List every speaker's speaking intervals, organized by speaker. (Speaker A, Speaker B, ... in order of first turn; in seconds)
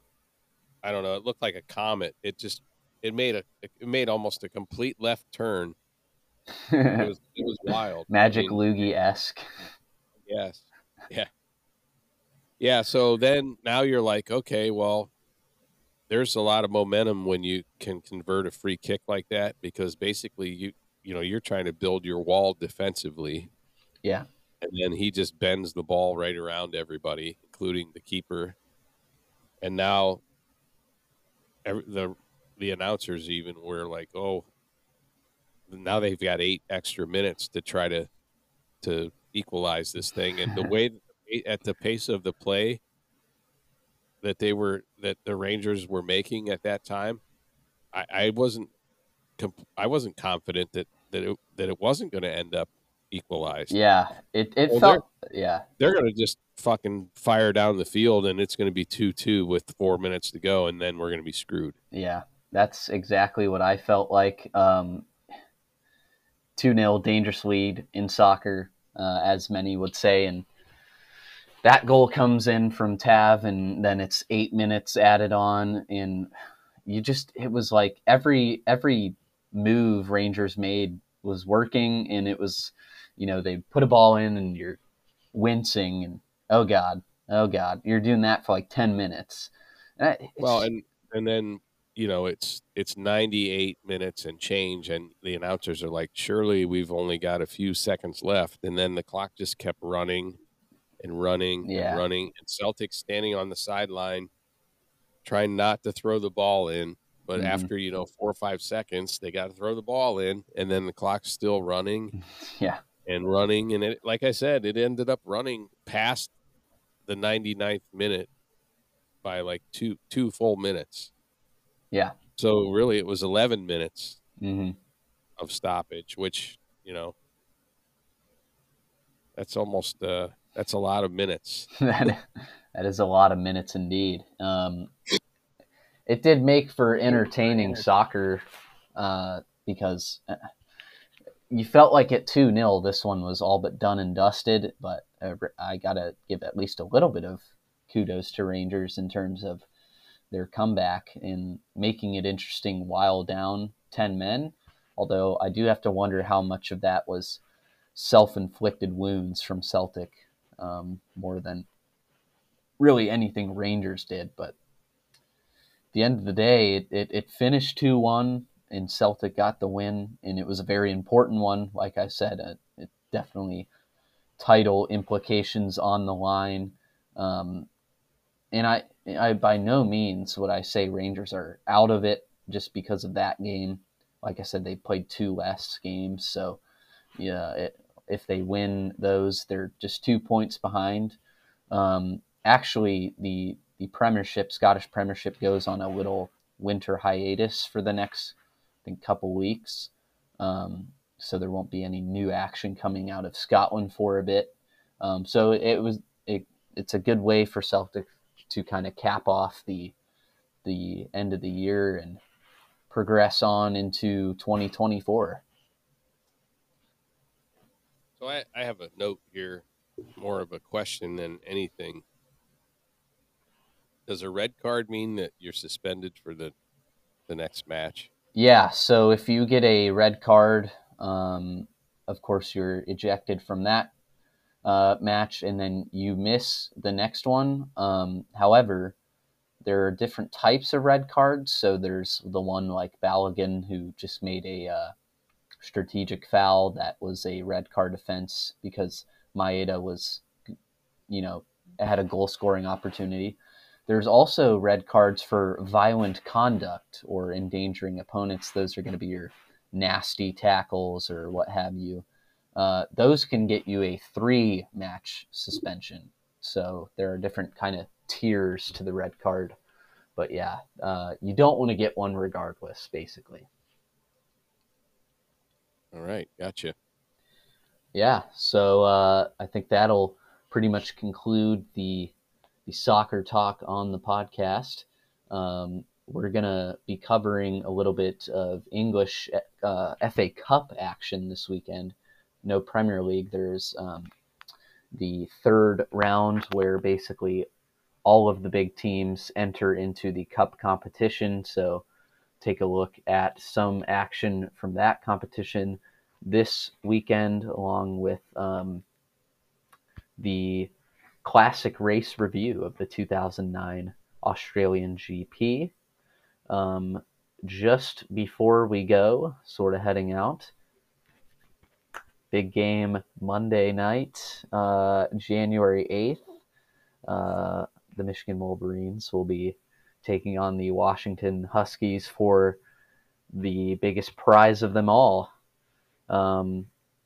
Speaker A: 0.8-5.8, 7.0-8.6, 10.2-11.3, 12.6-15.1, 16.1-23.5, 24.6-28.6, 29.6-30.2, 31.6-34.5, 35.7-38.1, 38.8-42.8, 44.2-47.2, 47.9-48.7, 49.4-53.7, 54.7-55.0, 55.8-61.7, 90.4-100.4, 101.0-104.3, 105.2-112.1, 113.0-116.3, 117.0-118.3, 119.2-121.1, 122.4-124.2, 125.4-127.1, 129.3-131.7, 137.2-137.8, 218.2-219.6, 220.2-222.0, 224.1-226.5, 227.3-228.1, 275.9-276.7
Speaker B: 6.7-7.1, 8.1-9.4, 53.7-55.6, 61.9-65.1, 66.5-70.5, 71.6-76.3, 76.8-84.8, 85.3-90.7, 101.6-102.0, 107.3-107.7, 112.2-112.8, 124.4-124.8, 131.8-134.9, 136.1-140.4, 141.5-149.7, 150.3-157.4, 157.9-161.7, 162.8-164.5, 165.9-173.7, 174.4-177.7, 178.5-186.6, 187.2-191.2, 191.7-209.9, 210.6-212.2, 212.9-215.4, 228.3-233.9, 234.6-238.9, 239.6-244.9, 245.6-250.2, 251.1-269.6, 270.1-273.5, 277.9-282.1, 282.6-294.1, 294.9-297.5, 298.0-301.8, 302.4-308.8, 310.2-310.7, 311.2-315.7, 316.5-320.5, 322.3-326.3, 327.1-332.6, 333.3-335.3, 336.1-336.7